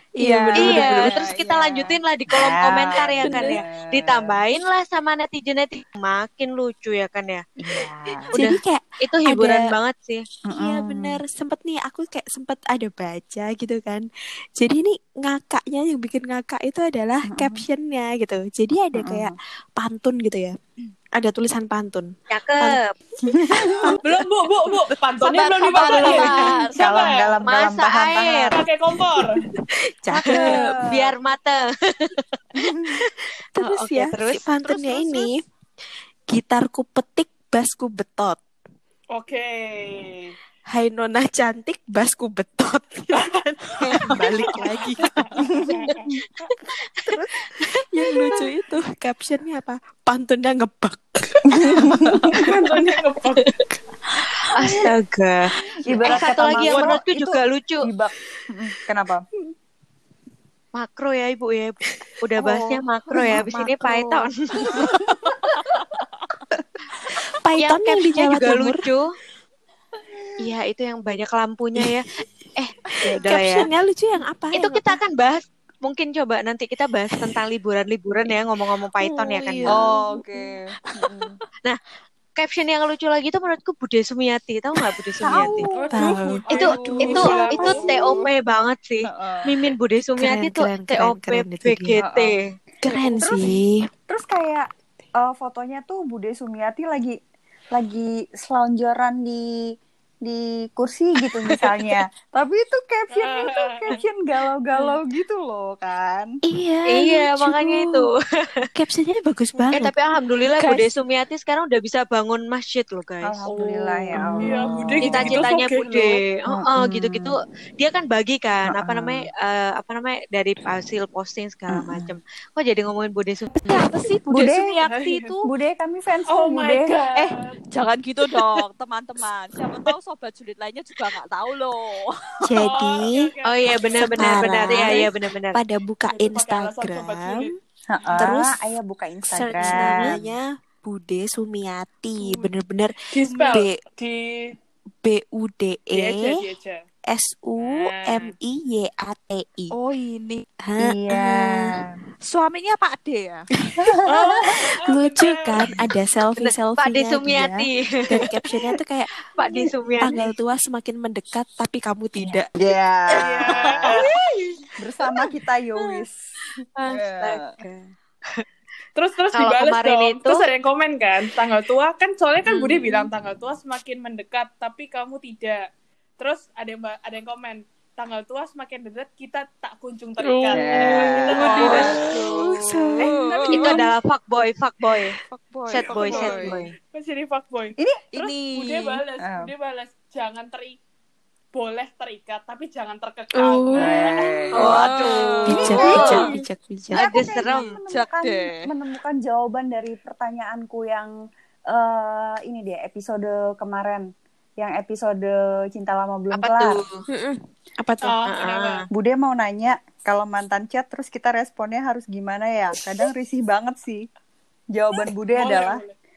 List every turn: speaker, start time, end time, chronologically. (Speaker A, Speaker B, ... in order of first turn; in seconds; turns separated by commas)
Speaker A: 0.2-1.2, Speaker B: 0.2-1.0, Speaker C: 0.6-7.4, Speaker D: 1.1-4.4, Speaker A: 3.2-3.6, Speaker D: 7.6-8.3, Speaker A: 8.3-9.7, Speaker C: 8.3-10.2, Speaker D: 10.5-11.2, Speaker A: 10.6-14.1, Speaker A: 14.6-20.6, Speaker D: 17.3-17.6, Speaker D: 18.9-19.4, Speaker A: 21.1-22.8, Speaker C: 22.3-22.9, Speaker D: 23.2-24.0, Speaker A: 23.4-24.3, Speaker E: 24.0-27.4, Speaker B: 25.3-26.8, Speaker C: 25.8-26.3, Speaker D: 26.1-28.6, Speaker C: 27.4-28.6, Speaker E: 28.5-29.4, Speaker A: 30.0-30.8, Speaker D: 30.1-31.0, Speaker C: 30.2-32.2, Speaker D: 32.5-33.0, Speaker A: 33.5-35.4, Speaker C: 33.6-35.3, Speaker A: 36.3-38.4, Speaker E: 39.1-40.4, Speaker A: 40.7-45.6, Speaker E: 43.1-43.4, Speaker E: 44.2-46.1, Speaker D: 45.4-45.8, Speaker C: 46.6-47.2, Speaker A: 47.8-52.8, Speaker D: 51.5-52.5, Speaker E: 52.3-53.5, Speaker C: 54.5-55.5, Speaker D: 55.8-59.2, Speaker A: 56.0-56.9, Speaker C: 56.1-57.9, Speaker C: 60.8-65.0, Speaker A: 63.1-66.0, Speaker A: 67.0-68.8, Speaker C: 67.6-69.1, Speaker C: 70.4-73.7, Speaker A: 73.1-75.0, Speaker C: 74.5-79.8, Speaker A: 79.0-80.2, Speaker D: 79.7-81.4, Speaker C: 82.4-85.7, Speaker D: 85.2-88.3, Speaker E: 85.8-87.9, Speaker A: 85.9-88.3, Speaker C: 86.6-92.4, Speaker D: 89.1-89.5, Speaker A: 90.2-92.0, Speaker D: 92.0-92.3, Speaker A: 92.8-93.9, Speaker D: 92.8-94.7, Speaker D: 95.2-97.2, Speaker D: 97.7-99.5, Speaker D: 100.2-106.3, Speaker E: 103.1-104.0, Speaker A: 106.5-108.1, Speaker C: 106.9-108.7, Speaker A: 108.7-109.9, Speaker C: 109.7-113.4, Speaker D: 113.2-115.4, Speaker E: 113.7-116.2, Speaker C: 115.0-123.8, Speaker D: 116.5-117.4, Speaker D: 118.7-119.2, Speaker D: 121.7-122.1, Speaker B: 123.7-125.5, Speaker D: 124.3-124.8, Speaker E: 124.8-125.4, Speaker D: 125.5-126.9, Speaker E: 126.3-127.6, Speaker B: 127.2-132.4, Speaker A: 132.4-133.3, Speaker E: 132.5-133.7, Speaker C: 133.4-135.6, Speaker A: 134.0-137.5, Speaker E: 136.1-137.6, Speaker D: 137.9-140.3, Speaker A: 138.2-138.6, Speaker A: 139.3-143.8, Speaker C: 139.6-140.0, Speaker E: 143.1-144.6, Speaker A: 145.0-146.4, Speaker E: 145.9-146.8, Speaker A: 147.1-149.8, Speaker E: 147.6-148.3, Speaker B: 149.7-150.4, Speaker A: 150.6-151.8, Speaker D: 150.8-151.9, Speaker B: 152.3-153.5, Speaker A: 153.7-162.5, Speaker E: 154.1-155.7, Speaker C: 156.4-158.1, Speaker C: 159.3-160.2, Speaker D: 162.2-164.0, Speaker E: 163.2-164.2, Speaker D: 164.8-166.2, Speaker C: 166.8-168.4, Speaker D: 166.9-167.6, Speaker E: 169.0-175.7, Speaker C: 169.3-170.5, Speaker E: 176.2-182.0, Speaker A: 180.5-183.8, Speaker D: 180.5-182.1, Speaker B: 181.4-182.0, Speaker C: 181.5-182.0, Speaker B: 183.0-183.7, Speaker C: 183.5-185.2, Speaker B: 185.3-186.5, Speaker C: 185.7-186.7, Speaker E: 185.8-190.8, Speaker D: 187.8-188.0, Speaker B: 188.1-189.0, Speaker D: 189.2-189.5, Speaker E: 191.5-196.4, Speaker A: 193.3-194.0, Speaker D: 193.8-194.9, Speaker C: 194.6-196.3, Speaker A: 194.6-197.1, Speaker B: 194.6-195.8, Speaker D: 195.5-196.3, Speaker C: 196.9-197.7, Speaker D: 196.9-201.1, Speaker B: 197.9-198.5, Speaker D: 201.7-204.1, Speaker D: 204.6-206.8, Speaker C: 206.3-207.0, Speaker A: 207.1-208.2, Speaker E: 208.0-208.9, Speaker C: 208.3-208.8, Speaker D: 208.9-214.1, Speaker D: 214.7-215.8, Speaker E: 215.3-216.0